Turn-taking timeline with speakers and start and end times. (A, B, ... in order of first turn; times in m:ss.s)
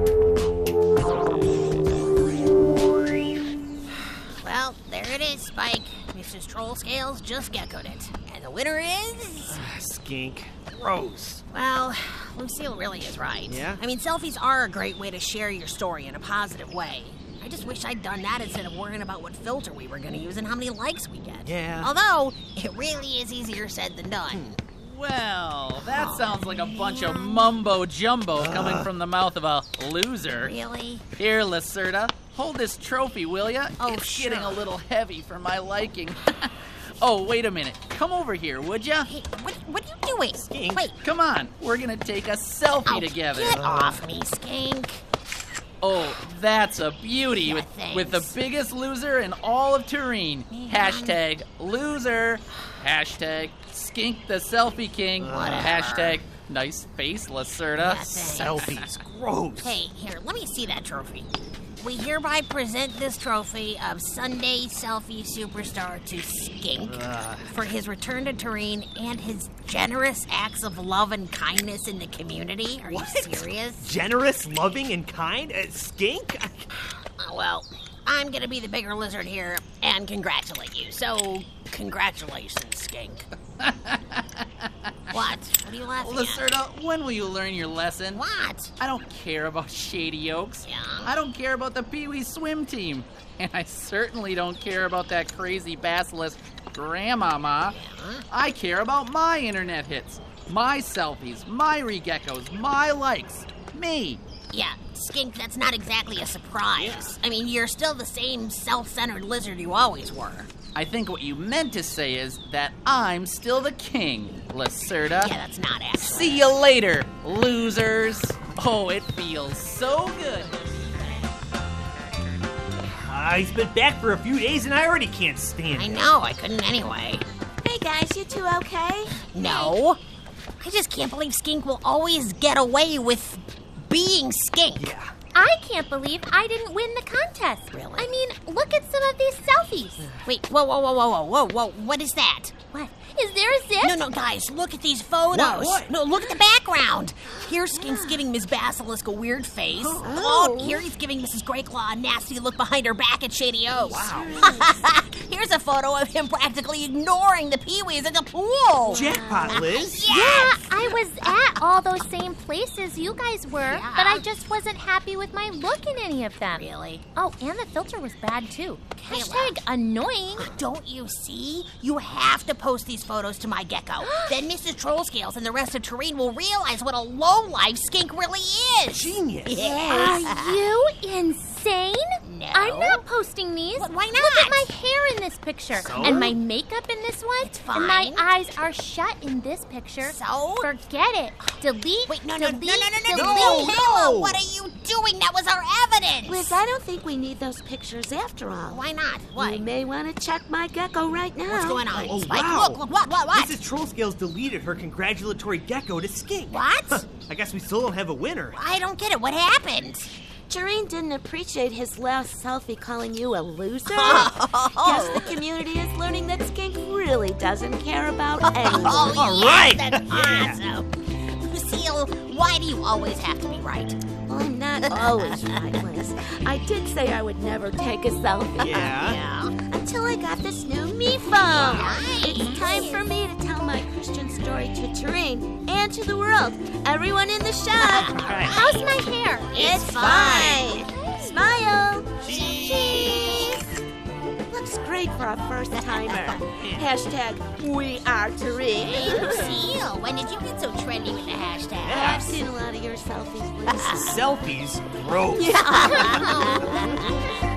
0:04.4-0:09.6 A
0:09.5-0:11.4 B
0:11.5-0:24.6 A
0:13.5-0:13.8 B
0:21.4-0:21.9 B
0:24.8-0:30.5 C
0:25.8-0:27.5 A
0:28.4-0:28.9 B
0:30.4-0:31.0 A
0:31.2-0:39.1 C
0:33.8-0:34.6 A
0:39.1-0:41.0 A
0:40.3-0:40.9 B
0:41.0-0:43.6 C
0:42.8-0:45.0 A
0:43.6-0:44.0 B
0:45.8-0:59.0 C
0:47.4-0:48.3 A
0:50.5-0:51.2 A
0:55.2-0:55.7 B
0:55.2-0:56.2 A
0:57.8-0:58.7 A
0:58.3-0:59.8 B
0:59.6-1:13.9 A
1:06.8-1:07.5 B
1:12.8-1:16.6 B
1:17.2-1:23.3 A
1:23.6-1:25.3 C
1:25.1-1:26.4 A
1:26.0-1:28.2 C
1:28.1-1:28.7 A
1:28.8-1:37.8 C
1:30.6-1:31.1 A
1:37.7-1:38.2 A
1:38.3-1:44.2 C
1:44.5-1:50.5 A
1:46.8-1:47.0 B
1:50.7-1:55.3 C
1:55.2-1:56.4 A
1:56.0-2:00.5 C
2:02.8-2:06.1 B
2:05.7-2:07.2 A
2:07.6-2:09.3 D
2:09.3-2:10.0 A
2:10.6-2:14.9 A
2:14.8-2:15.1 B
2:15.3-2:20.1 E
2:17.7-2:18.1 A
2:20.0-2:20.3 B
2:20.2-2:22.5 A
2:22.7-2:24.0 E
2:23.8-2:41.6 A
2:25.3-2:25.9 B
2:27.7-2:28.2 D
2:29.8-2:30.1 B
2:30.0-2:30.8 D
2:33.8-2:34.7 D
2:33.9-2:34.3 B
2:38.8-2:39.7 D
2:38.9-2:40.1 B
2:40.0-2:50.6 E
2:43.5-2:44.2 A
2:46.5-2:47.0 A
2:49.0-2:49.6 A
2:50.4-3:00.6 A
2:54.0-2:54.4 E
2:58.9-2:59.8 B
2:59.6-3:13.8 E
3:02.2-3:03.0 A
3:03.8-3:04.7 A
3:05.7-3:06.4 B
3:05.8-3:06.3 A
3:07.4-3:08.3 A
3:10.0-3:10.7 A
3:12.1-3:16.6 A
3:13.1-3:14.4 B
3:16.2-3:21.9 D
3:18.7-3:19.6 A
3:21.4-3:23.6 A
3:21.9-3:28.6 B
3:26.5-3:27.1 A
3:28.5-3:30.1 A
3:30.5-3:39.2 D
3:33.8-3:35.4 A
3:38.6-3:44.0 A
3:38.6-3:40.6 B
3:44.3-3:49.0 D
3:44.9-3:45.6 A
3:48.6-3:49.2 B
3:48.8-3:49.5 A
3:49.7-3:58.3 D
3:51.3-3:53.0 A
3:52.5-3:52.8 E
3:57.8-4:00.9 A
3:58.0-3:58.6 B
3:58.5-3:59.7 E
3:59.6-4:02.1 D
4:02.2-4:03.3 B
4:02.2-4:03.6 A
4:04.5-4:09.6 D
4:06.5-4:06.8 B
4:08.7-4:12.3 A
4:11.8-4:12.3 B
4:12.0-4:14.2 D
4:13.7-4:14.0 A
4:13.9-4:16.8 B
4:15.5-4:16.4 D
4:15.6-4:17.1 A